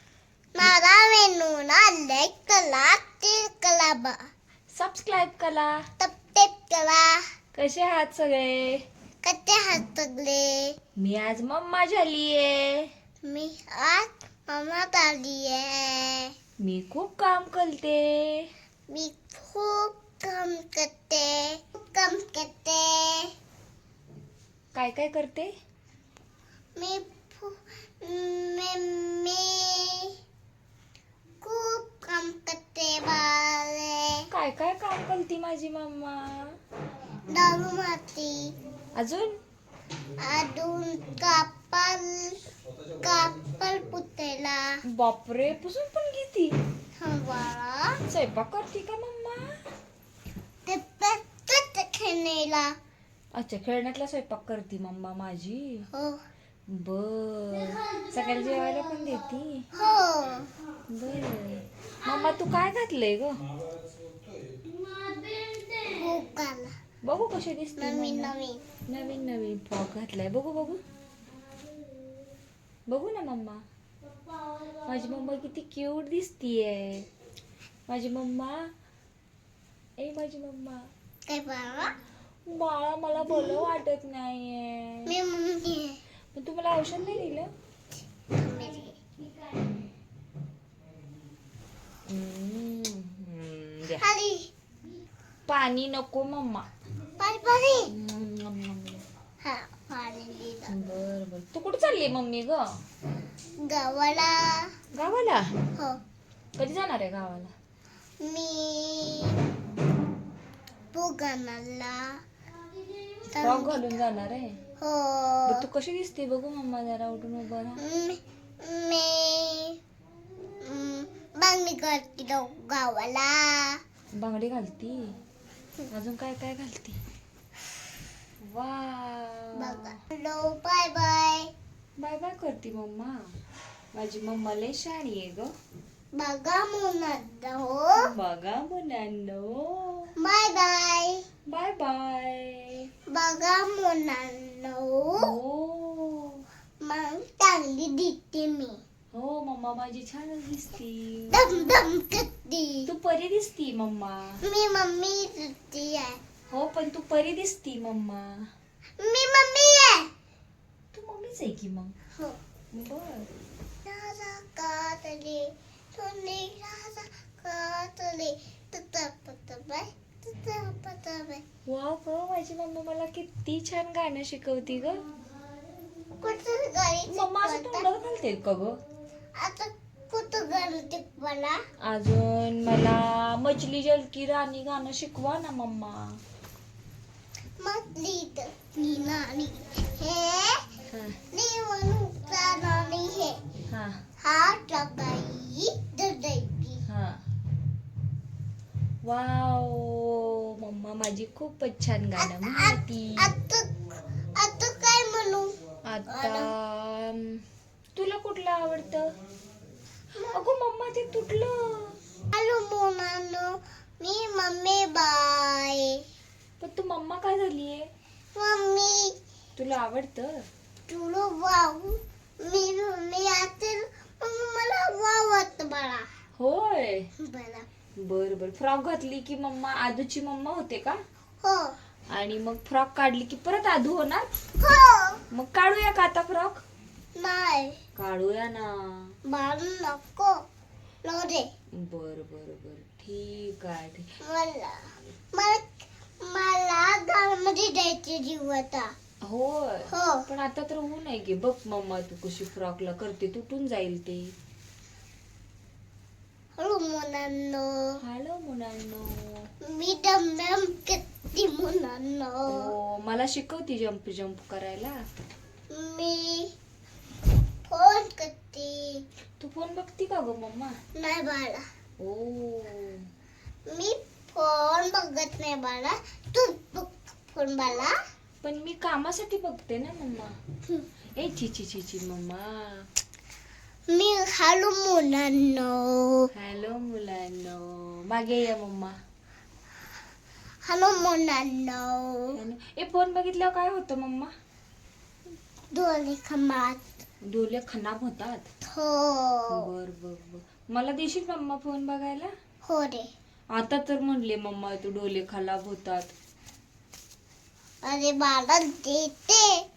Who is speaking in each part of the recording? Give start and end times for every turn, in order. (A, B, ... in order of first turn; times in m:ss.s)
0:00.5-0:04.3 A
0:04.7-0:05.8 B
0:06.0-0:07.2 A
0:07.5-0:08.8 B
0:09.2-0:10.7 A
0:11.0-0:12.9 B
0:13.2-0:16.3 A
0:16.6-0:18.5 B
0:18.9-0:23.3 A
0:24.7-0:25.5 B
0:26.8-0:30.1 A
0:31.4-0:34.3 A
0:34.3-0:36.6 B
0:37.3-0:38.5 A
0:38.9-0:39.4 B
0:40.2-0:42.4 A
0:43.0-0:44.8 A
0:44.8-0:46.6 B
0:47.0-0:48.0 A
0:48.1-0:49.6 B
0:50.6-0:52.8 A
0:53.3-0:55.9 B
0:55.9-0:56.2 A
0:56.7-0:59.7 B
0:59.7-1:00.5 A
1:00.9-1:03.5 B
1:05.9-1:06.7 A
1:07.0-1:08.3 B
1:07.8-1:08.6 A
1:08.9-1:10.8 B
1:12.9-1:13.6 B
1:14.8-1:17.1 B
1:17.9-1:18.7 B
1:20.0-1:20.9 B
1:21.3-1:21.9 A
1:22.5-1:25.1 B
1:25.0-1:26.0 A
1:26.3-1:27.5 B
1:28.3-1:29.0 A
1:32.0-1:34.0 B
1:34.0-1:34.5 A
1:35.5-1:36.7 B
1:37.2-1:37.9 A
1:37.9-1:39.0 B
1:39.4-1:40.8 A
1:40.7-1:42.6 B
1:43.6-1:44.7 A
1:44.9-1:45.5 B
1:46.6-1:47.5 B
1:48.2-1:49.4 A
1:50.9-1:52.2 A
1:53.3-1:53.8 A
1:53.4-1:54.6 B
1:54.8-1:55.6 A
1:55.5-1:57.8 B
1:57.8-1:59.8 A
2:00.6-2:03.8 A
2:04.1-2:05.2 B
2:05.9-2:07.0 B
2:08.4-2:09.9 B
2:09.5-2:11.5 A
2:12.0-2:13.3 B
2:13.9-2:15.5 B
2:16.1-2:18.0 A
2:17.9-2:20.1 B
2:20.2-2:21.3 A
2:21.4-2:22.9 B
2:23.1-2:25.3 A
2:25.2-2:26.4 B
2:26.8-2:28.8 A
2:29.1-2:31.6 B
2:31.3-2:32.9 A
2:32.8-2:34.4 B
2:34.4-2:36.2 A
2:36.5-2:38.5 B
2:39.0-2:40.1 A
2:40.9-2:41.9 B
2:42.7-2:43.3 B
2:43.8-2:51.4 A
2:51.7-2:55.0 B
2:56.2-2:57.9 A
2:57.1-2:58.8 B
2:59.4-3:01.6 A
3:01.8-3:06.2 B
3:07.6-3:10.6 A
3:10.9-3:11.2 B
3:11.3-3:13.4 A
3:13.7-3:14.0 B
3:14.2-3:16.8 A
3:16.9-3:17.2 B
3:19.0-3:23.3 B
3:22.2-3:25.5 A
3:25.8-3:27.4 B
3:26.1-3:26.5 A
3:27.9-3:29.1 B
3:30.1-3:30.4 A
3:30.3-3:32.0 B
3:32.3-3:36.0 A
3:36.6-3:37.9 B
3:38.3-3:39.1 A
3:39.6-3:40.4 B
3:40.9-3:46.0 A
3:46.4-3:47.1 B
3:47.2-3:47.7 A
3:48.0-3:51.0 B
3:51.4-3:51.8 A
3:52.1-3:54.3 B
3:54.6-3:55.2 A
3:55.3-3:56.6 B
3:57.2-3:57.8 A
3:58.0-3:59.1 B
3:59.3-4:00.3 A
4:01.0-4:01.5 A
4:01.7-4:04.1 B
4:04.2-4:05.6 A
4:06.2-4:08.9 A
4:09.2-4:14.3 B
4:09.9-4:10.2 A
4:16.6-4:18.0 A
4:18.0-4:19.5 B
4:19.6-4:22.7 A
4:22.5-4:25.0 B
4:25.7-4:26.5 A
4:27.7-4:29.0 A
4:29.4-4:30.7 B
4:30.9-4:31.6 A
4:32.0-4:33.1 B
4:33.7-4:37.9 A
4:38.4-4:40.4 B
4:41.2-4:42.9 B
4:43.9-4:46.3 A
4:46.3-4:49.0 B
4:50.6-4:52.4 A
4:52.3-4:54.3 B
4:55.7-4:56.8 A
4:57.2-4:58.5 B
4:58.7-4:59.7 A
4:59.5-5:02.3 B
5:02.6-5:03.1 A
5:03.5-5:06.1 B
5:07.8-5:09.6 A